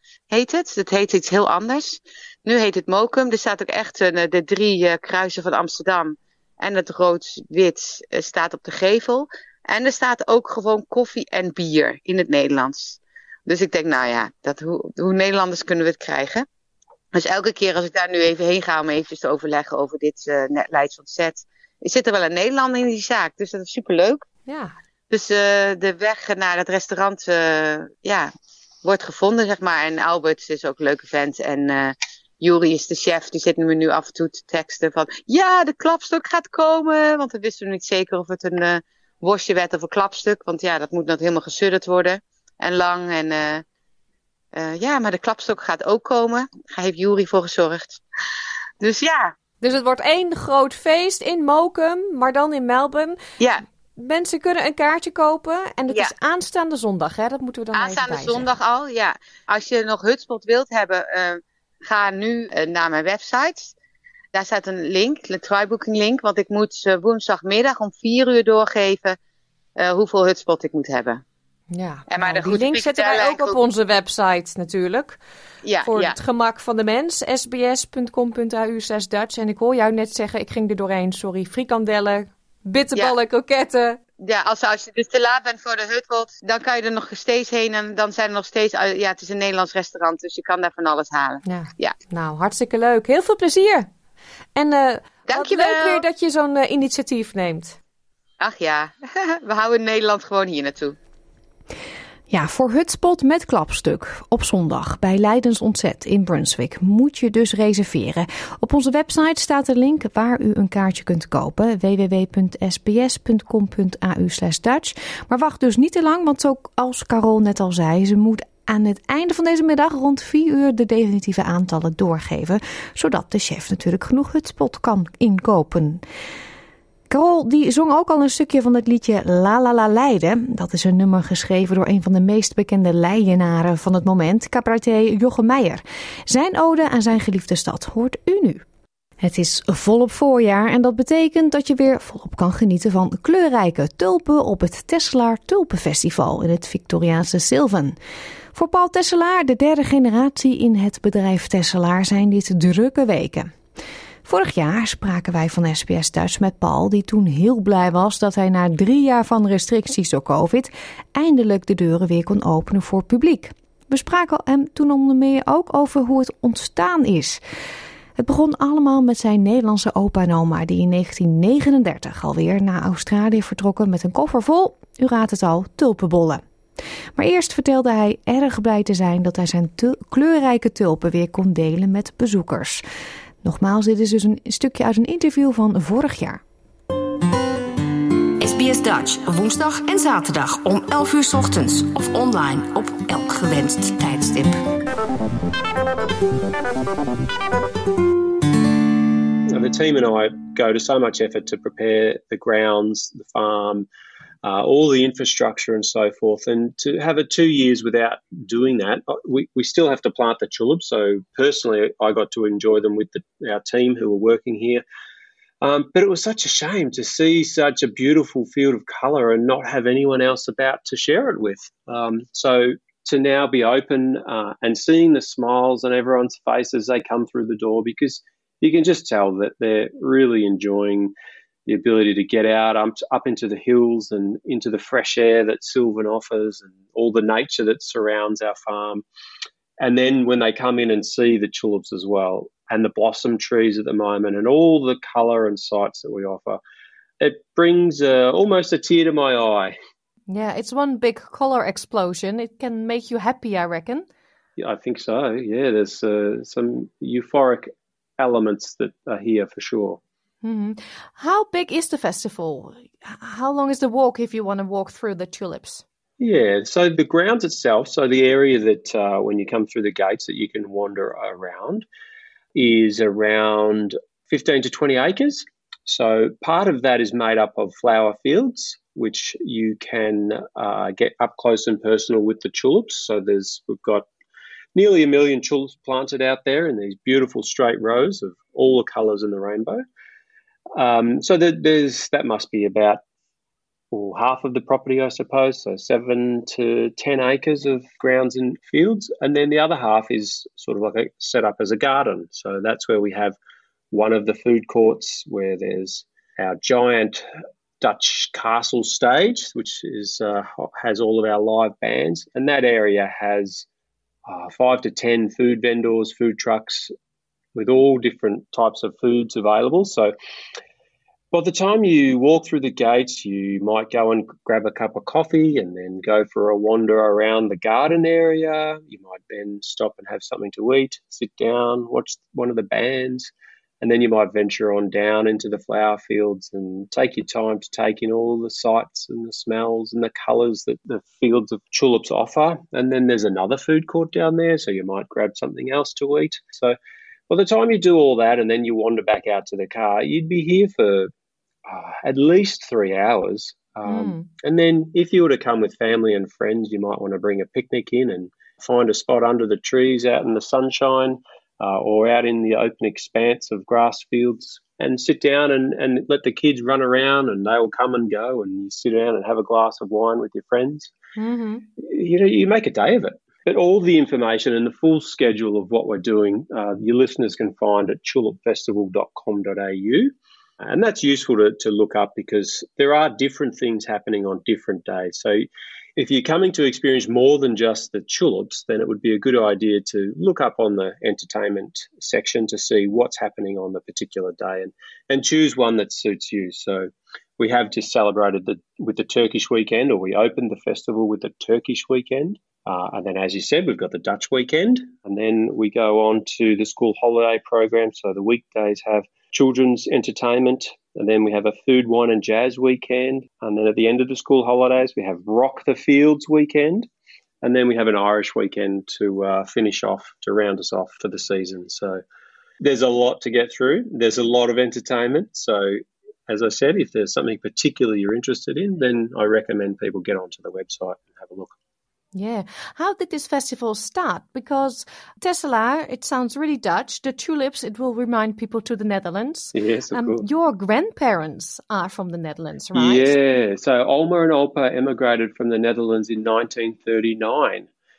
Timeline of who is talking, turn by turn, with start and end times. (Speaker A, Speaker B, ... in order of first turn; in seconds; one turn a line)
Speaker A: 0.3-16.5
Speaker A: 17.1-24.2
Speaker B: 24.5-24.8
Speaker A: 25.1-28.3
Speaker A: 28.8-43.6
Speaker A: 44.5-48.0
Speaker A: 48.8-49.3
Speaker B: 49.6-53.2
Speaker B: 54.0-58.5
Speaker A: 57.7-63.7
Speaker A: 64.3-69.2
Speaker A: 69.8-71.2
Speaker B: 71.7-75.2
Speaker A: 72.1-73.6
Speaker A: 75.6-76.2
Speaker B: 75.8-84.0
Speaker A: 84.2-92.0
Speaker B: 91.5-93.9
Speaker B: 94.5-97.8
Speaker A: 95.3-96.0
Speaker A: 98.4-101.0
Speaker C: 102.3-126.0
Speaker C: 127.1-138.7
Speaker C: 139.2-148.0
Speaker C: 148.5-153.5
Speaker C: 154.2-167.4
Speaker C: 168.2-176.4
Speaker C: 177.2-182.8
Speaker C: 183.4-186.4
Speaker D: 188.4-194.6
Speaker E: 199.5-203.9
Speaker E: 204.4-214.8
Speaker E: 215.6-231.1
Speaker E: 231.7-239.0
Speaker E: 239.8-246.6
Speaker E: 247.2-249.8
Speaker B: 250.3-254.1
Speaker E: 254.6-260.0
Speaker B: 260.4-265.8
Speaker E: 266.2-271.9
Speaker E: 272.6-284.1
Speaker E: 284.8-289.8
Speaker E: 290.8-293.0
Speaker E: 293.9-303.4
Speaker E: 303.9-307.2
Speaker E: 307.8-313.7
Speaker E: 314.3-316.9
Speaker E: 317.6-320.1
Speaker E: 321.3-346.8
Speaker E: 347.3-351.1
Speaker E: 351.7-370.9
Speaker B: 353.9-354.3
Speaker B: 371.2-371.6
Speaker E: 371.8-416.9
Speaker E: 417.4-422.0
Speaker E: 422.6-431.5
Speaker B: 432.1-443.1
Speaker E: 439.6-440.2
Speaker E: 442.7-447.7